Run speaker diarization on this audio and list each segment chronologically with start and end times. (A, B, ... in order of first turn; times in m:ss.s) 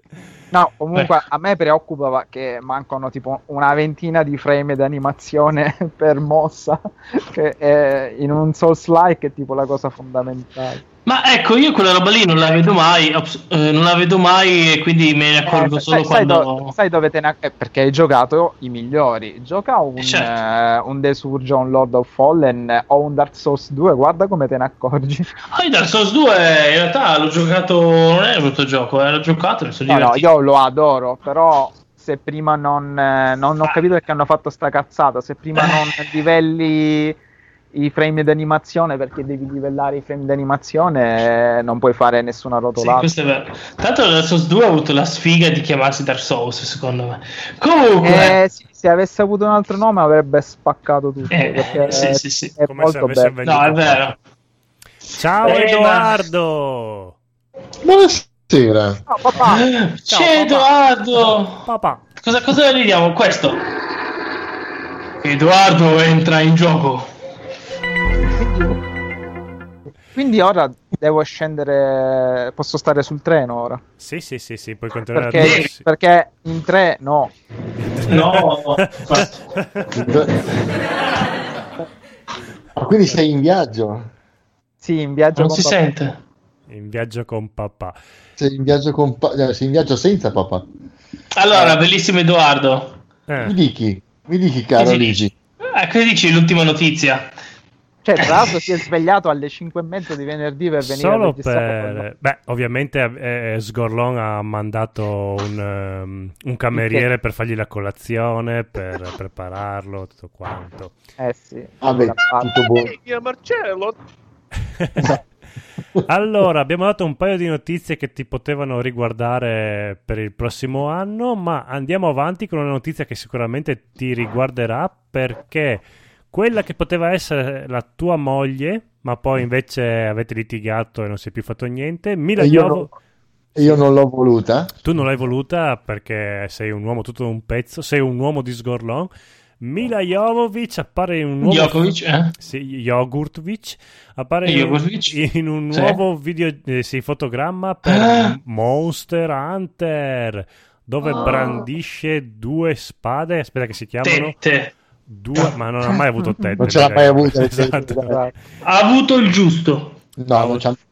0:00.5-0:10.8 A
0:11.0-0:16.7 B
0:15.4-0:25.3 A
0:20.0-0:20.3 B
0:25.5-0:30.2 B
0:29.9-0:37.2 A
0:35.6-0:35.9 B
0:37.7-0:43.1 A
0:42.8-0:48.4 B
0:48.0-0:53.3 A
0:51.3-0:52.6 B
0:52.7-0:54.1 C
0:53.4-0:54.2 B
0:55.2-0:57.2 C
0:55.4-0:56.2 B
0:57.8-0:59.0 D
0:59.1-0:59.6 A
0:59.4-1:01.6 B
1:00.1-1:00.7 C
1:01.6-1:02.0 C
1:02.2-1:03.6 B
1:05.2-1:07.1 B
1:08.4-1:08.8 A
1:10.1-1:13.8 A
1:14.0-1:15.8 C
1:15.1-1:17.3 A
1:15.4-1:15.7 B
1:17.8-1:19.9 C
1:18.1-1:19.4 B
1:19.9-1:20.5 D
1:22.8-1:24.1 D
1:24.8-1:25.8 A
1:25.4-1:26.2 B
1:26.7-1:28.0 C
1:28.4-1:30.6 D
1:31.4-1:33.0 B
1:31.5-1:31.8 A
1:33.3-1:33.6 C
1:33.4-1:35.3 D
1:34.8-1:35.2 B
1:35.7-1:37.3 B
1:38.0-1:42.0 A
1:38.2-1:38.6 B
1:40.8-1:50.9 C
1:46.7-1:47.1 A
1:51.2-1:52.5 A
1:51.8-1:52.9 D
1:54.8-1:55.2 C
1:56.1-2:12.9 C
2:12.4-2:12.9 D
2:13.5-2:14.7 D
2:14.8-2:34.4 C
2:21.4-2:22.4 B
2:24.4-2:25.2 B
2:25.7-2:26.0 B
2:27.8-2:28.3 B
2:34.0-2:34.7 B
2:35.1-2:38.2 C
2:36.6-2:38.2 D
2:38.0-2:38.3 A
2:38.6-2:40.6 B
2:40.2-2:40.8 D